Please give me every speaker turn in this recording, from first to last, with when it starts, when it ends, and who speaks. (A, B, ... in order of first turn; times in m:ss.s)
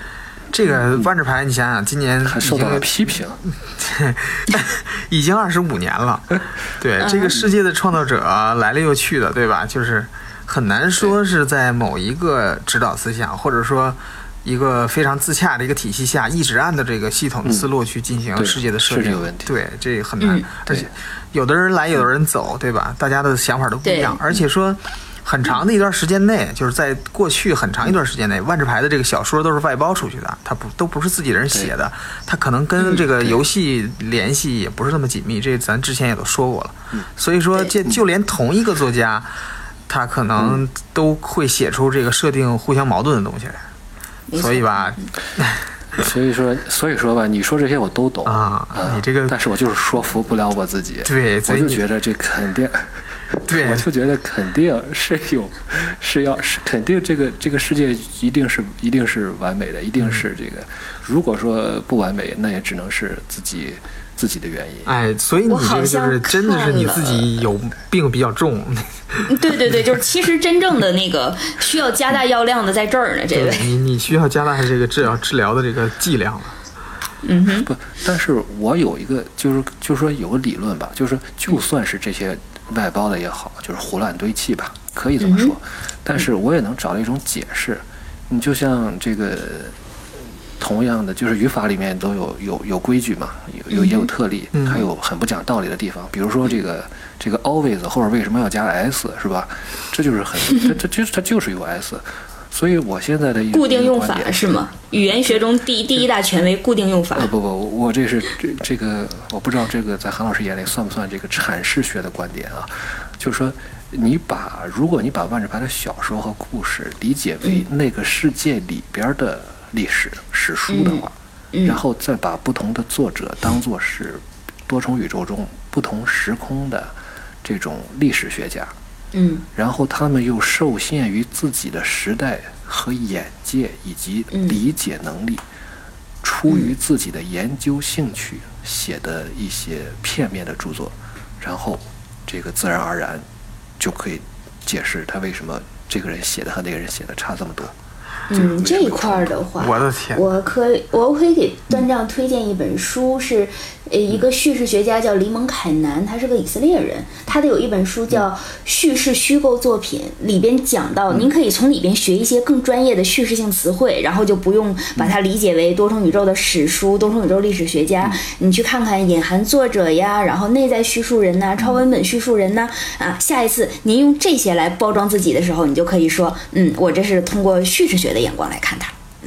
0:00.5-0:02.9 A
0:02.2-0:03.4 B
0:03.4-0:39.3 A
0:07.0-0:07.4 C
0:18.4-0:19.5 B
0:20.2-0:20.5 C
0:23.8-0:24.2 C
0:39.9-0:43.6 A
0:44.3-0:45.1 C
0:44.4-0:45.6 A
0:45.9-1:04.9 B
0:48.2-0:49.3 A
0:51.0-0:51.8 A
0:53.5-0:53.9 A
1:04.8-1:09.4 A
1:05.5-1:07.3 C
1:09.3-1:13.7 C
1:13.3-1:16.6 A
1:17.2-1:17.7 C
1:17.6-1:29.8 B
1:25.2-1:25.5 C
1:30.6-1:45.4 B
1:33.7-1:34.1 C
1:34.5-1:34.8 A
1:43.5-1:47.3 C
1:47.1-2:01.1 B
2:00.7-2:01.8 C
2:01.6-2:08.7 B
2:09.1-2:09.4 C
2:09.5-2:15.4 B
2:14.3-2:14.6 C
2:16.2-2:23.2 B
2:23.8-2:27.7 B
2:28.3-2:59.0 C
2:28.3-2:29.3 B
2:29.6-2:30.2 A